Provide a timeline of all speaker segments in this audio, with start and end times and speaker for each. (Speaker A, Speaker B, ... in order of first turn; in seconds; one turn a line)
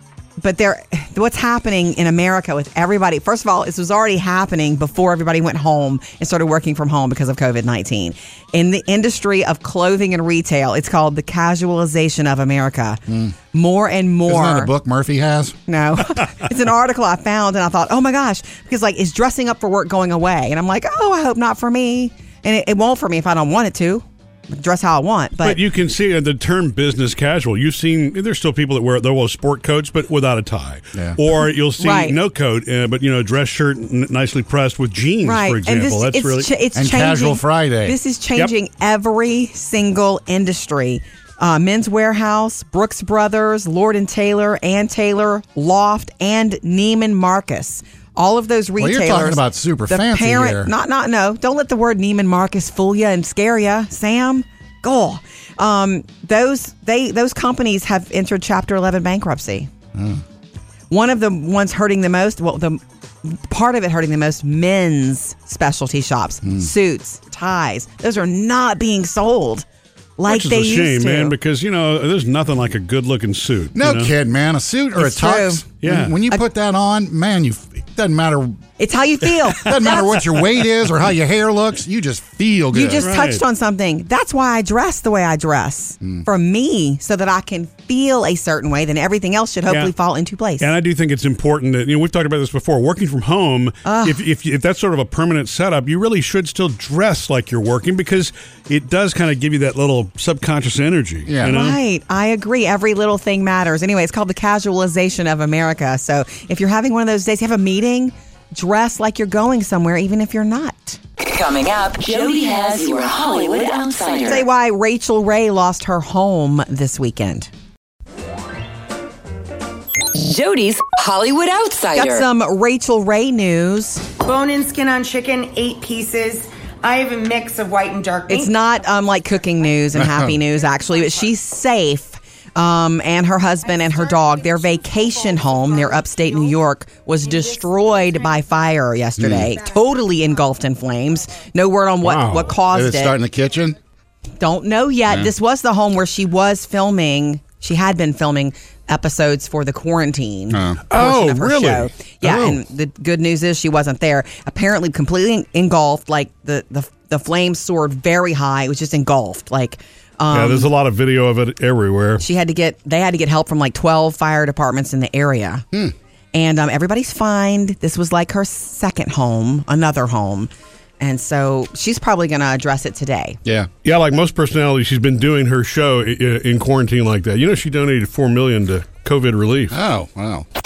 Speaker A: 0.4-13.0
Speaker B: 13.1-13.3
Speaker A: 13.5-14.7
Speaker B: 14.2-15.6
Speaker A: 15.7-25.6
Speaker C: 25.4-36.5
Speaker A: 31.8-32.1
Speaker A: 35.2-59.7
Speaker B: 36.7-38.0
Speaker B: 48.8-50.7
Speaker B: 59.9-60.2
Speaker A: 60.9-69.7
Speaker A: 70.2-71.3
Speaker C: 70.3-74.1
Speaker B: 73.7-78.6
Speaker A: 75.0-75.6
Speaker C: 75.8-76.2
Speaker A: 78.8-80.0
Speaker B: 79.6-83.1
Speaker A: 82.7-90.7
Speaker C: 83.0-83.4
Speaker C: 89.7-89.9
Speaker C: 90.6-101.8
Speaker A: 93.8-94.2
Speaker B: 101.3-101.6
Speaker A: 101.4-111.0
Speaker D: 111.2-114.4
Speaker A: 114.2-117.5
Speaker D: 120.1-122.2
Speaker A: 121.9-124.0
Speaker E: 124.2-128.5
Speaker A: 128.3-143.1
Speaker B: 129.9-130.4
Speaker B: 139.2-139.5
Speaker C: 142.0-142.6
Speaker B: 142.6-143.8
Speaker A: 144.4-160.7
Speaker B: 150.5-150.8
Speaker C: 150.9-152.6
Speaker C: 160.3-162.2
Speaker A: 162.2-165.6
Speaker A: 166.3-173.4
Speaker C: 173.8-179.8
Speaker B: 179.7-180.4